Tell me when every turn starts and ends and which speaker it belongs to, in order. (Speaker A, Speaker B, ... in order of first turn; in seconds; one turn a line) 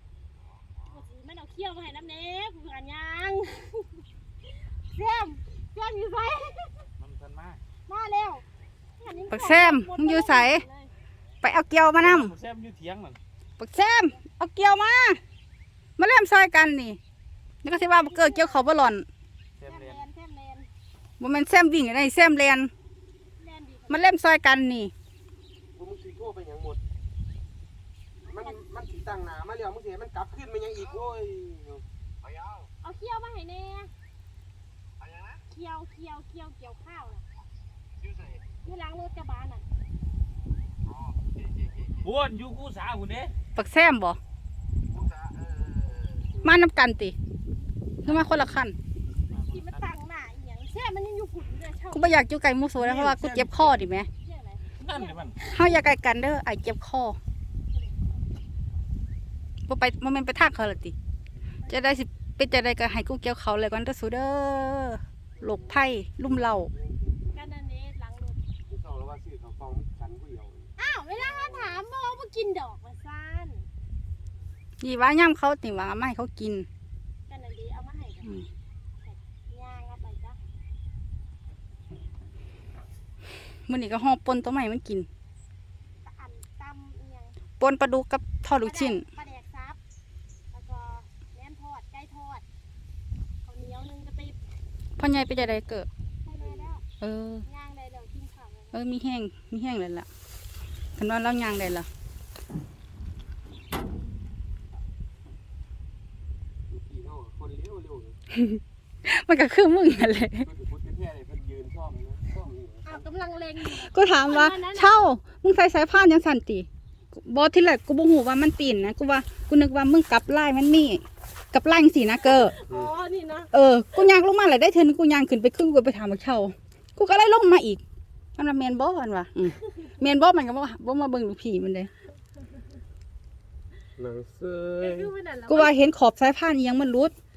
Speaker A: 0.8-6.9
Speaker B: 7.0-7.6
Speaker A: 7.9-8.4
Speaker A: 9.0-10.9
Speaker C: 9.3-10.6
Speaker C: 11.4-12.3
Speaker B: 11.9-13.2
Speaker C: 13.6-15.2
Speaker C: 16.0-17.0
Speaker C: 17.6-19.1
Speaker A: 17.6-18.6
Speaker B: 19.6-20.0
Speaker A: 19.6-20.7
Speaker C: 21.2-22.7
Speaker A: 23.4-24.1
Speaker C: 23.9-24.9
Speaker D: 25.7-26.8
Speaker D: 28.3-31.8
Speaker A: 28.3-28.6
Speaker A: 32.8-33.9
Speaker A: 35.5-37.2
Speaker A: 38.6-39.6
Speaker B: 41.9-43.4
Speaker C: 43.5-44.2
Speaker C: 46.4-47.1
Speaker C: 48.0-48.8
Speaker B: 48.0-48.4
Speaker B: 49.3-49.9
Speaker A: 49.5-52.2
Speaker C: 51.9-54.1
Speaker D: 52.8-53.7
Speaker A: 54.2-55.5
Speaker B: 54.8-55.4
Speaker C: 55.4-57.2
Speaker A: 57.7-58.0
Speaker C: 59.7-60.9
Speaker A: 61.6-62.0
Speaker C: 61.7-66.7
Speaker D: 65.4-67.4
Speaker A: 67.3-68.4
Speaker D: 68.7-71.8
Speaker A: 70.8-73.7
Speaker C: 74.8-76.7
Speaker A: 77.3-78.3
Speaker A: 79.0-80.4
Speaker C: 83.7-85.1
Speaker A: 86.0-87.4
Speaker C: 87.6-89.0
Speaker A: 88.6-89.8
Speaker A: 90.5-92.4
Speaker A: 93.4-94.4
Speaker C: 95.0-95.9
Speaker A: 96.2-96.8
Speaker D: 96.4-96.7
Speaker C: 97.0-97.4
Speaker A: 97.4-98.8
Speaker C: 98.7-100.1
Speaker C: 101.0-101.9
Speaker D: 106.7-108.2
Speaker C: 108.4-110.5
Speaker D: 110.4-113.1
Speaker A: 112.8-115.0
Speaker C: 113.6-122.5
Speaker A: 122.2-123.5
Speaker C: 123.5-127.8
Speaker C: 128.4-131.9
Speaker D: 134.0-135.1
Speaker A: 134.8-135.9
Speaker C: 135.5-137.1